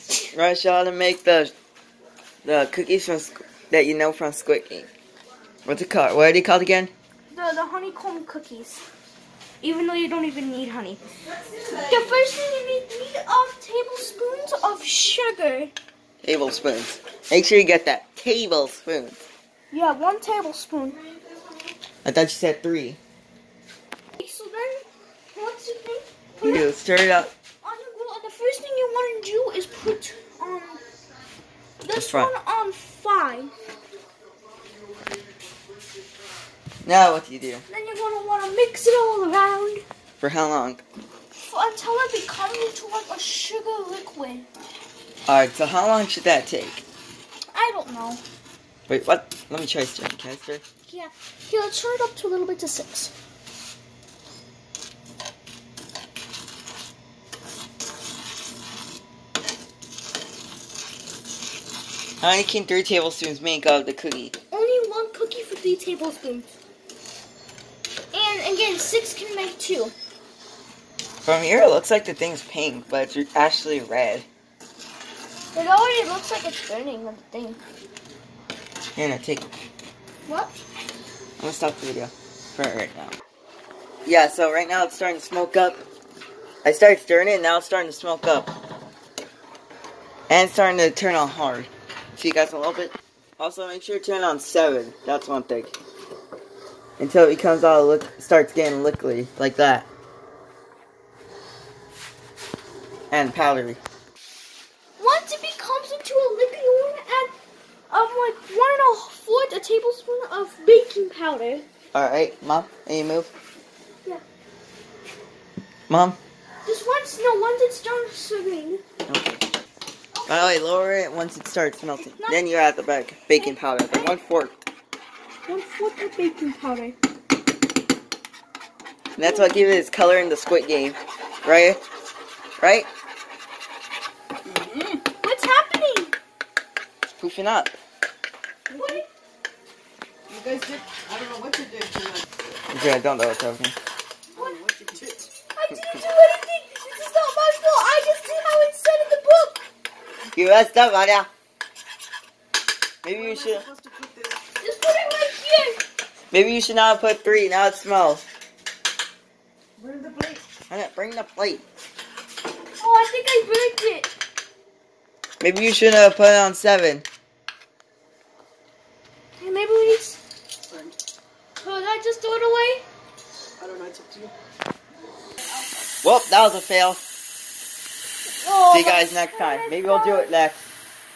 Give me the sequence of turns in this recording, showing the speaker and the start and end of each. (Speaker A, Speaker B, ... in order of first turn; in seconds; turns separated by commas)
Speaker A: 0.3-1.5, Speaker A: 2.4-4.9, Speaker A: 5.7-6.9, Speaker B: 7.3-8.8, Speaker B: 9.6-11.0, Speaker B: 11.8-15.7, Speaker A: 16.2-19.2, Speaker B: 19.7-21.0, Speaker A: 22.1-23.0, Speaker B: 24.2-26.7, Speaker A: 26.4-27.3, Speaker B: 27.6-30.8, Speaker B: 31.8-33.5, Speaker A: 31.9-32.3, Speaker A: 36.8-37.6, Speaker B: 37.7-39.9, Speaker A: 40.2-40.8, Speaker B: 41.4-44.5, Speaker A: 45.3-46.8, Speaker B: 47.5-48.2, Speaker A: 48.9-50.6, Speaker B: 50.9-53.1, Speaker A: 62.2-64.3, Speaker B: 64.5-66.5, Speaker B: 68.1-70.0, Speaker A: 71.2-74.3, Speaker B: 75.5-77.6, Speaker A: 79.0-79.5, Speaker B: 80.3-80.6, Speaker A: 81.4-83.1, Speaker A: 84.0-85.8, Speaker A: 86.6-88.5, Speaker A: 90.3-95.7, Speaker A: 97.0-99.9, Speaker A: 103.1-103.8, Speaker B: 105.0-107.3, Speaker B: 107.9-111.7, Speaker A: 111.9-113.3, Speaker A: 115.9-116.2, Speaker B: 116.7-118.8, Speaker A: 119.1-119.4, Speaker B: 120.1-120.6, Speaker A: 120.3-124.6, Speaker B: 122.1-122.4, Speaker B: 123.3-124.1, Speaker B: 125.5-127.0, Speaker A: 129.2-131.8, Speaker B: 129.2-129.8, Speaker A: 132.6-132.9, Speaker C: 134.4-135.0, Speaker B: 135.2-136.1, Speaker A: 137.2-137.8, Speaker C: 138.7-139.0, Speaker B: 138.7-139.1, Speaker C: 140.3-142.2, Speaker A: 142.7-143.8, Speaker C: 144.3-145.3, Speaker B: 145.5-149.7, Speaker A: 150.3-151.3, Speaker A: 153.0-153.7, Speaker C: 153.1-154.4, Speaker B: 154.6-155.8, Speaker A: 156.3-158.2, Speaker C: 159.8-160.4, Speaker A: 160.7-161.6, Speaker B: 162.8-164.2, Speaker A: 165.4-167.1, Speaker B: 169.4-170.2, Speaker C: 170.7-170.9, Speaker B: 171.6-172.9, Speaker C: 173.6-174.3, Speaker B: 175.5-175.8, Speaker A: 176.0-177.0, Speaker B: 178.4-180.3, Speaker A: 178.7-180.7